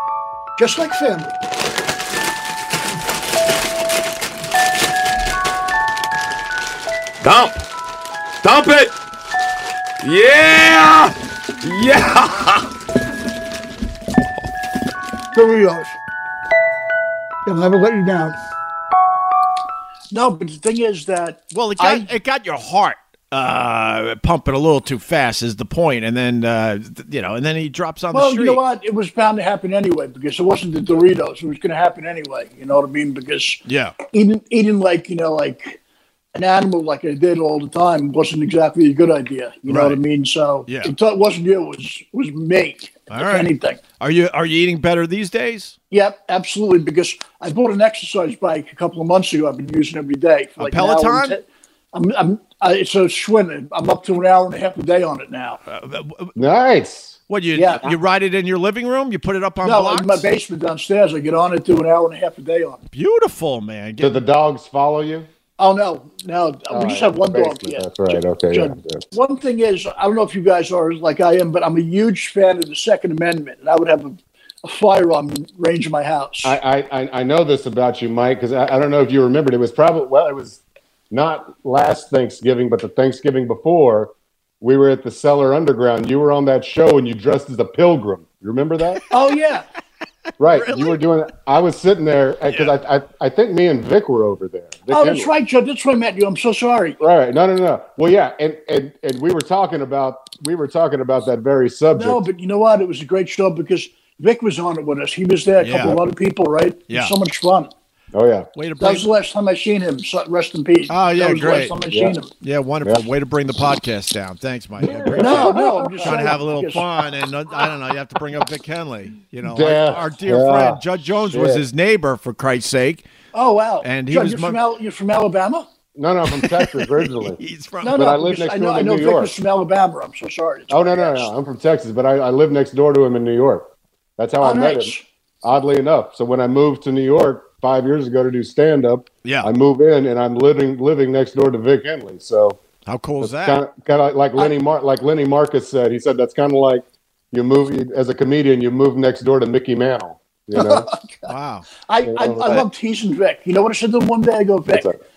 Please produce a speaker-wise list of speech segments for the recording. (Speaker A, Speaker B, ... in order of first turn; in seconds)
Speaker A: 0.6-1.4, 15.3-16.0, 17.4-18.4, 20.1-22.1, 28.1-35.8, 36.4-43.8, 45.9-55.6, 57.5-57.9, 59.6-62.8, 65.6-76.6, 89.1-89.7, 94.9-97.0, 101.9-107.7, 108.8-112.3, 115.2-116.9, 123.3-125.7, 127.8-131.3, 134.4-135.0, 150.5-151.3, 151.8-154.9
Speaker B: 7.2-7.7, 8.4-9.0, 10.0-12.7
Speaker C: 21.5-28.6, 33.7-34.0, 39.7-40.0, 40.7-40.9, 43.1-45.8, 50.6-51.4, 55.7-56.3, 57.3-60.2, 62.9-64.2, 90.4-91.0, 92.5-92.7, 105.6-106.0, 108.5-109.1, 110.9-111.7, 112.4-123.0, 123.8-124.6, 126.3-128.0, 139.2-139.5, 142.9-143.6, 151.3-151.7
Speaker D: 56.4-57.2, 64.0-65.3, 66.7-69.0, 76.4-89.0, 90.4-95.3, 97.0-102.2, 108.1-108.5, 111.9-112.2, 114.8-116.2, 119.4-121.6, 126.0-129.3, 130.7-142.6, 143.2-150.9, 152.0-152.6, 154.7-154.9